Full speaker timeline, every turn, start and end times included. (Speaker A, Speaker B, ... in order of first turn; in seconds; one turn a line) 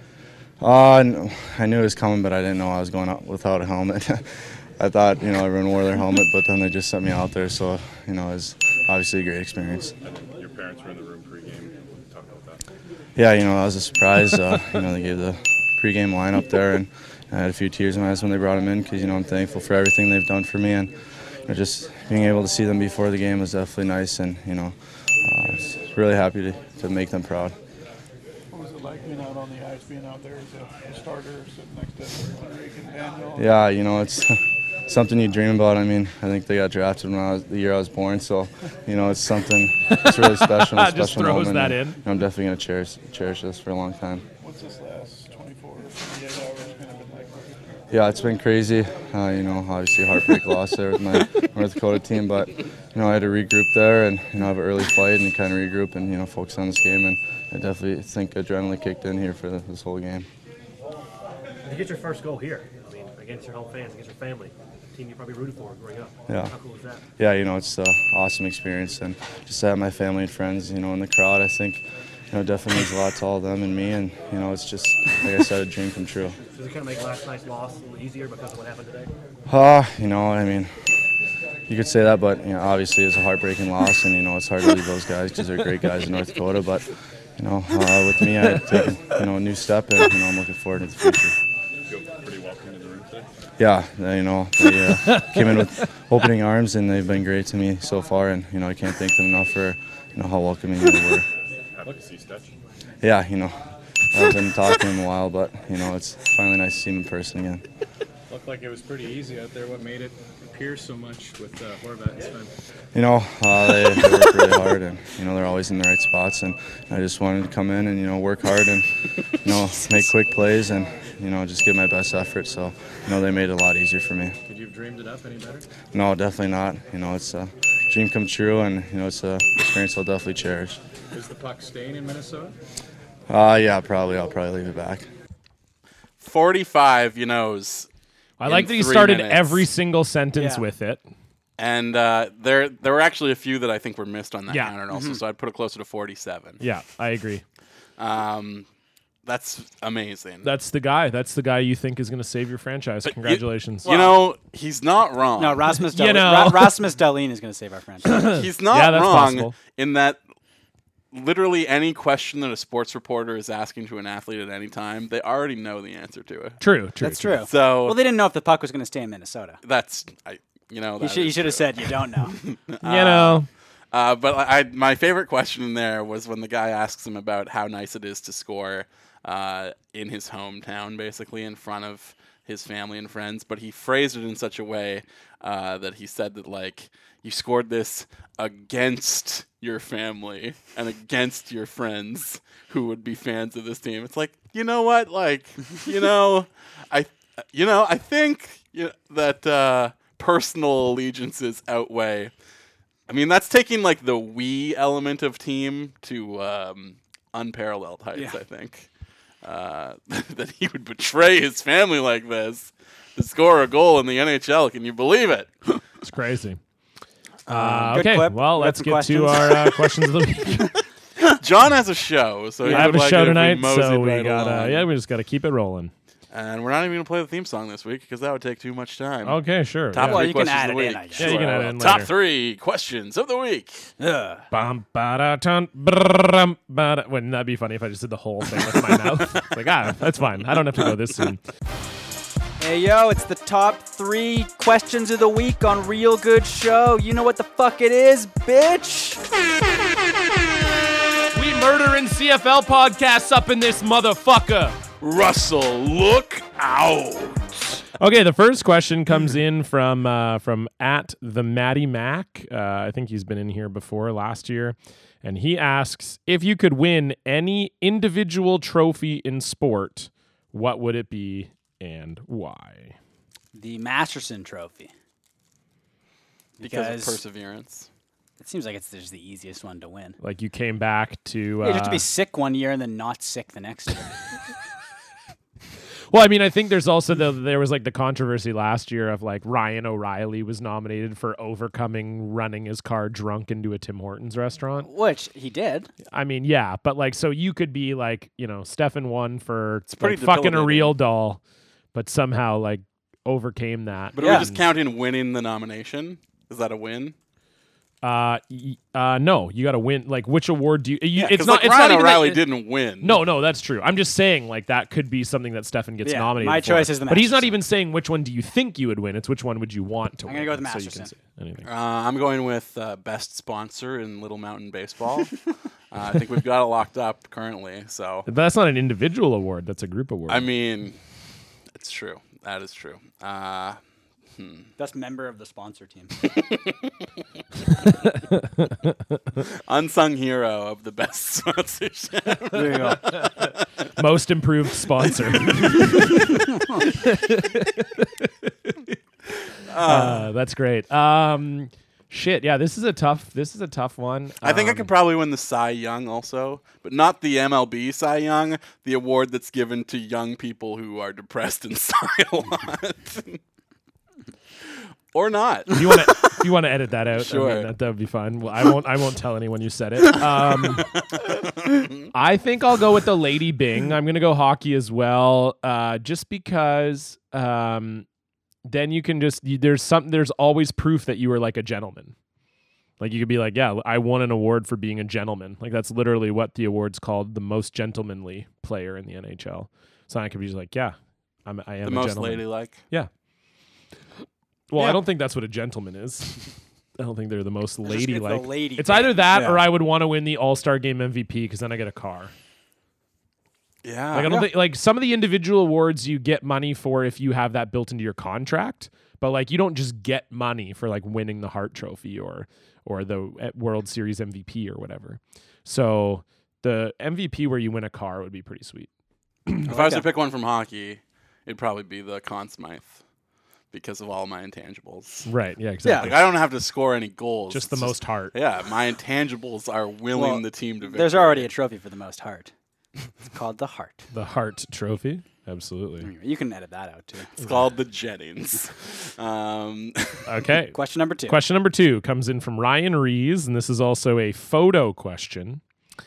Speaker A: 0.6-9.9
Speaker B: 10.0-12.6
Speaker A: 13.2-20.9
Speaker A: 21.4-27.6
Speaker C: 28.5-33.6
Speaker A: 33.4-44.2
Speaker D: 39.9-42.0
Speaker C: 44.4-47.5
Speaker A: 47.9-60.3
Speaker E: 61.6-67.0
Speaker A: 66.3-66.5
Speaker A: 67.2-76.4
Speaker E: 76.3-79.1
Speaker A: 79.5-80.7
Speaker A: 81.7-86.8
Speaker A: 87.4-91.3
Speaker B: 91.9-93.3
Speaker A: 93.6-101.3
Speaker D: 95.1-95.5
Speaker B: 101.7-102.5
Speaker A: 103.0-103.6
Speaker A: 104.1-107.6
Speaker F: 108.3-112.5
Speaker A: 112.9-118.9
Speaker A: 119.4-124.3
Speaker F: 124.5-125.7
Speaker A: 125.9-130.8
Speaker F: 131.1-132.5
Speaker A: 133.3-135.1
Speaker G: 136.2-137.9
Speaker D: 138.4-141.0
Speaker G: 138.4-139.7
Speaker H: 140.3-140.6
Speaker G: 141.6-146.6
Speaker D: 144.5-144.7
Speaker H: 144.9-145.2
Speaker D: 146.6-147.4
Speaker G: 148.0-148.7
Speaker G: 149.2-150.5
Speaker D: 150.4-153.9
Speaker G: 153.0-155.7
Speaker H: 155.4-158.3
Speaker D: 155.9-156.9
Speaker D: 158.0-159.5
Speaker G: 158.3-160.2
Speaker G: 161.1-166.6
Speaker D: 166.6-167.4
Speaker H: 167.0-169.6
Speaker G: 167.4-168.0
Speaker G: 169.6-202.3
Speaker H: 171.0-172.4
Speaker D: 172.8-173.5
Speaker G: 203.1-208.9
Speaker G: 209.4-215.6
Speaker D: 216.0-216.6
Speaker H: 217.5-219.7
Speaker D: 217.5-220.8
Speaker G: 221.2-224.9
Speaker H: 222.6-223.0
Speaker D: 222.7-225.9
Speaker G: 226.3-229.4
Speaker D: 229.2-230.3
Speaker G: 229.9-233.9
Speaker H: 229.9-231.6
Speaker D: 231.2-232.1
Speaker H: 234.0-234.4
Speaker D: 234.5-241.4
Speaker H: 242.6-249.2
Speaker D: 251.3-254.8
Speaker G: 255.0-257.8
Speaker D: 258.0-272.9
Speaker H: 273.5-274.9
Speaker H: 276.6-277.2
Speaker G: 276.6-277.9
Speaker H: 278.4-280.2
Speaker D: 280.2-282.1
Speaker H: 281.6-284.1
Speaker D: 286.1-294.9
Speaker H: 294.8-295.9
Speaker D: 296.1-301.4
Speaker G: 299.9-301.0
Speaker D: 301.9-304.6
Speaker G: 304.1-307.1
Speaker H: 304.2-304.5
Speaker D: 308.0-312.4
Speaker G: 311.1-313.2
Speaker D: 313.0-321.7
Speaker H: 316.0-317.5
Speaker H: 320.2-321.1
Speaker G: 321.6-325.4
Speaker G: 325.9-328.3
Speaker D: 328.3-330.5
Speaker G: 330.3-331.0
Speaker G: 331.7-333.8
Speaker G: 334.4-334.7
Speaker H: 334.8-336.2
Speaker G: 336.2-336.9
Speaker D: 338.4-339.2
Speaker G: 339.5-343.8
Speaker H: 342.5-343.0
Speaker D: 343.9-348.9
Speaker G: 349.6-350.3
Speaker D: 349.8-354.9
Speaker G: 354.4-363.4
Speaker G: 365.1-366.0
Speaker D: 365.7-370.9
Speaker G: 367.1-367.7
Speaker D: 372.1-378.0
Speaker D: 378.6-382.1
Speaker D: 383.0-393.1
Speaker G: 391.8-392.8
Speaker D: 394.7-402.3
Speaker H: 397.8-399.6
Speaker G: 403.8-404.4
Speaker D: 404.1-418.9
Speaker H: 419.6-420.0
Speaker G: 419.6-423.0
Speaker G: 423.7-425.3
Speaker D: 425.2-426.2
Speaker H: 425.8-426.1
Speaker G: 425.9-431.5
Speaker D: 427.5-428.3
Speaker H: 430.1-432.5
Speaker H: 433.3-434.1
Speaker D: 434.1-436.1
Speaker H: 436.0-437.3
Speaker G: 437.4-440.2
Speaker D: 440.2-445.6
Speaker H: 440.7-441.4